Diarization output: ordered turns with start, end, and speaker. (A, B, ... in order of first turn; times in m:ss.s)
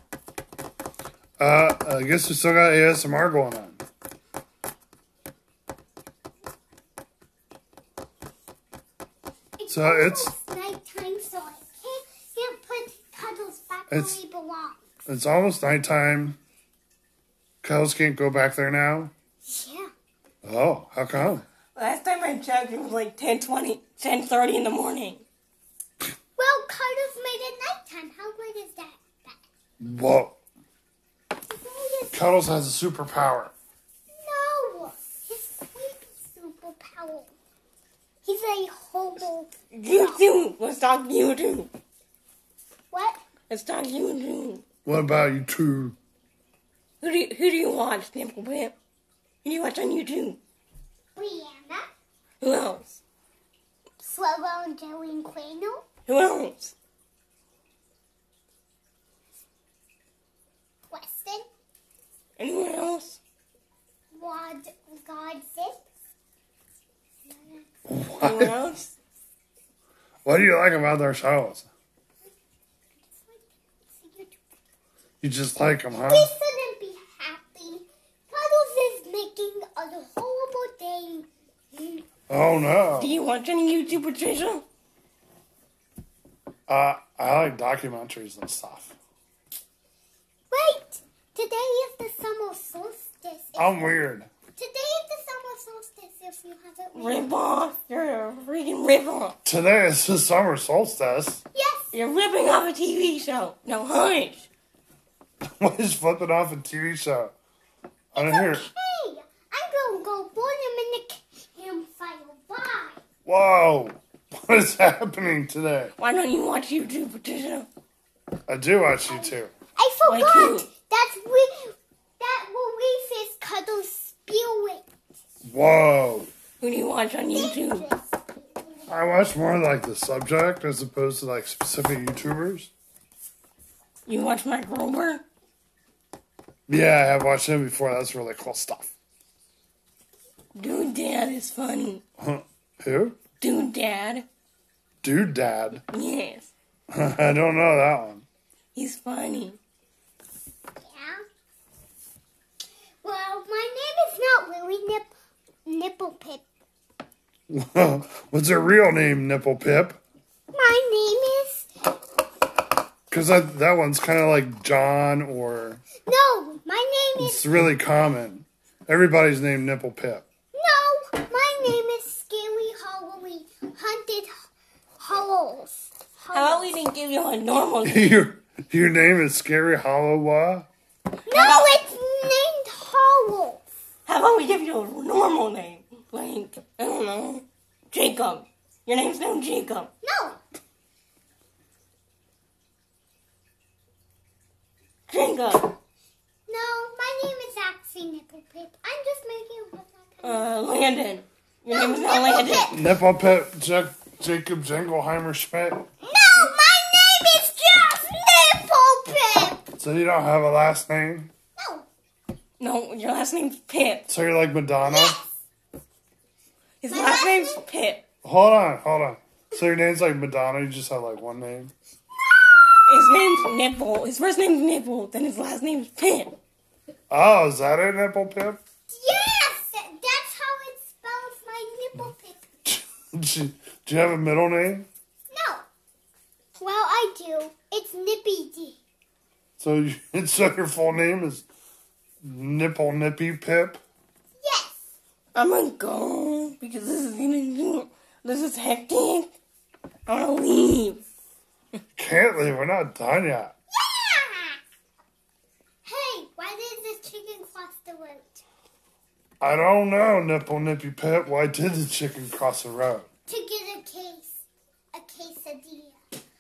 0:01.4-0:03.8 A
0:09.6-0:14.8 B
0:09.7-0:10.3 A
0:13.9-0:14.2 A
0:15.1-0:16.4 A
0:17.6-0:19.1 A
0:19.4-0:19.9 B
0:20.4-0:21.4 A
0:21.8-0:25.2 C
0:26.4-0:29.4 B
0:29.8-0:30.4 A
0:31.5-0:32.2 B
0:32.1-0:33.5 A
0:34.1-0:37.3 B
0:38.2-0:40.2 B
0:39.7-0:41.7 C
0:42.9-0:43.2 B
0:43.5-0:44.6 C
0:44.9-0:46.0 A
0:47.0-0:48.7 C
0:49.4-0:50.4 C
0:51.2-0:51.8 B
0:52.4-0:53.0 C
0:54.0-0:55.8 B
0:56.1-0:56.7 C
1:00.9-1:01.5 B
1:02.4-1:03.2 C
1:04.1-1:05.8 B
1:07.3-1:07.6 B
1:07.9-1:08.5 A
1:08.2-1:08.9 C
1:10.2-1:11.7 A
1:13.0-1:14.4 B
1:15.2-1:16.3 A
1:16.0-1:22.0 B
1:22.3-1:23.2 A
1:23.0-1:24.6 C
1:26.7-1:29.0 A
1:30.5-1:33.8 B
1:33.6-1:34.3 A
1:34.6-1:37.3 B
1:37.0-1:39.4 C
1:39.4-1:41.4 A
1:41.5-1:41.9 B
1:41.9-1:44.4 C
1:45.6-1:47.3 A
1:48.1-1:48.6 A
1:48.2-1:53.0 B
1:53.3-1:55.9 A
1:56.0-1:57.7 C
1:58.5-1:59.5 A
1:59.1-2:04.8 B
2:00.0-2:00.7 C
2:05.4-2:06.3 A
2:06.6-2:07.9 C
2:07.3-2:08.9 B
2:08.9-2:12.7 A
2:14.1-2:15.2 C
2:16.7-2:18.9 A
2:20.6-2:22.0 C
2:22.2-2:23.2 A
2:23.4-2:24.3 C
2:25.0-2:25.8 A
2:25.9-2:26.5 C
2:26.9-2:28.2 A
2:28.8-2:29.6 C
2:30.8-2:31.2 B
2:33.0-2:35.1 B
2:35.7-2:36.4 B
2:37.5-2:40.0 A
2:40.5-2:41.7 B
2:43.1-2:45.8 A
2:46.0-2:47.5 B
2:47.2-2:50.2 A
2:50.5-2:54.3 B
2:55.0-2:56.8 B
2:56.3-2:58.2 C
2:57.8-3:00.7 A
3:01.3-3:03.6 B
3:01.3-3:01.8 C
3:04.1-3:09.9 C
3:10.0-3:10.4 B
3:15.1-3:15.8 C
3:16.5-3:20.5 B
3:20.2-3:22.7 C
3:21.7-3:22.8 B
3:22.7-3:25.9 A
3:26.0-3:29.7 B
3:29.8-3:31.3 A
3:31.6-3:31.9 B
3:32.6-3:34.1 C
3:34.1-3:35.2 A
3:34.8-3:35.3 B
3:36.8-3:38.0 C
3:36.9-3:37.6 B
3:38.2-3:41.7 A
3:42.3-3:43.2 B
3:42.9-3:46.4 C
3:47.1-3:48.6 A
3:48.9-3:52.4 B
3:52.7-3:54.9 A
3:55.3-3:55.7 B
3:56.5-3:58.8 B
3:59.6-4:01.5 A
4:02.2-4:03.8 A
4:04.4-4:04.7 B
4:05.3-4:09.3 C
4:10.1-4:11.0 C
4:12.0-4:13.5 A
4:13.7-4:14.6 B
4:15.8-4:18.4 B
4:19.4-4:23.1 A
4:23.3-4:24.4 B
4:24.9-4:26.0 B